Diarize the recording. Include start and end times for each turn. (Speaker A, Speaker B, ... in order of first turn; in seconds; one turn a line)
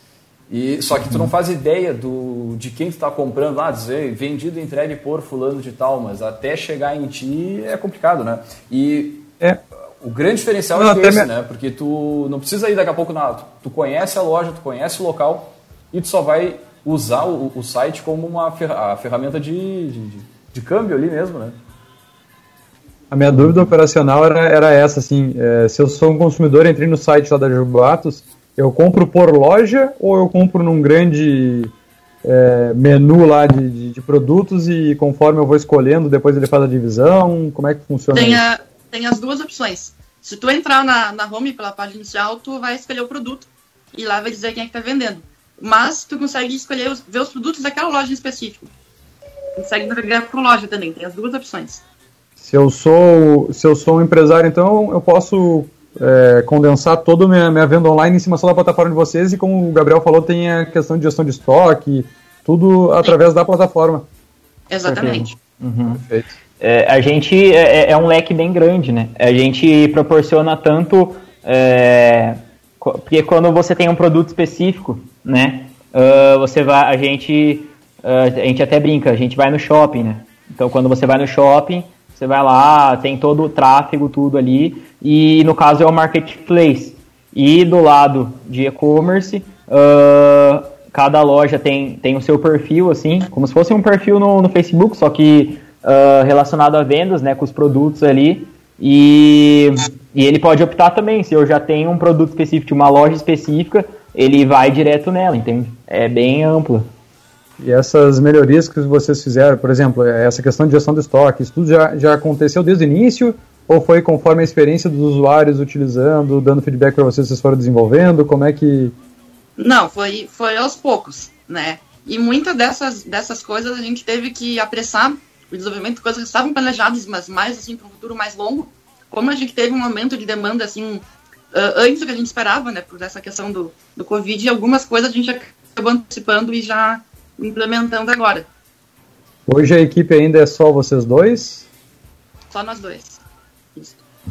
Speaker A: 0.5-9.3
Speaker A: 10.0-21.5
Speaker B: 10.7-11.3
Speaker B: 23.1-31.7
Speaker B: 32.2-38.4
Speaker C: 38.1-48.7
Speaker C: 49.5-51.8
Speaker B: 52.4-64.0
Speaker C: 64.7-65.3
Speaker D: 64.8-66.0
Speaker D: 66.6-106.9
Speaker B: 107.6-119.0
Speaker C: 119.6-138.5
Speaker B: 139.5-141.7
Speaker C: 142.5-143.2
Speaker C: 143.7-144.0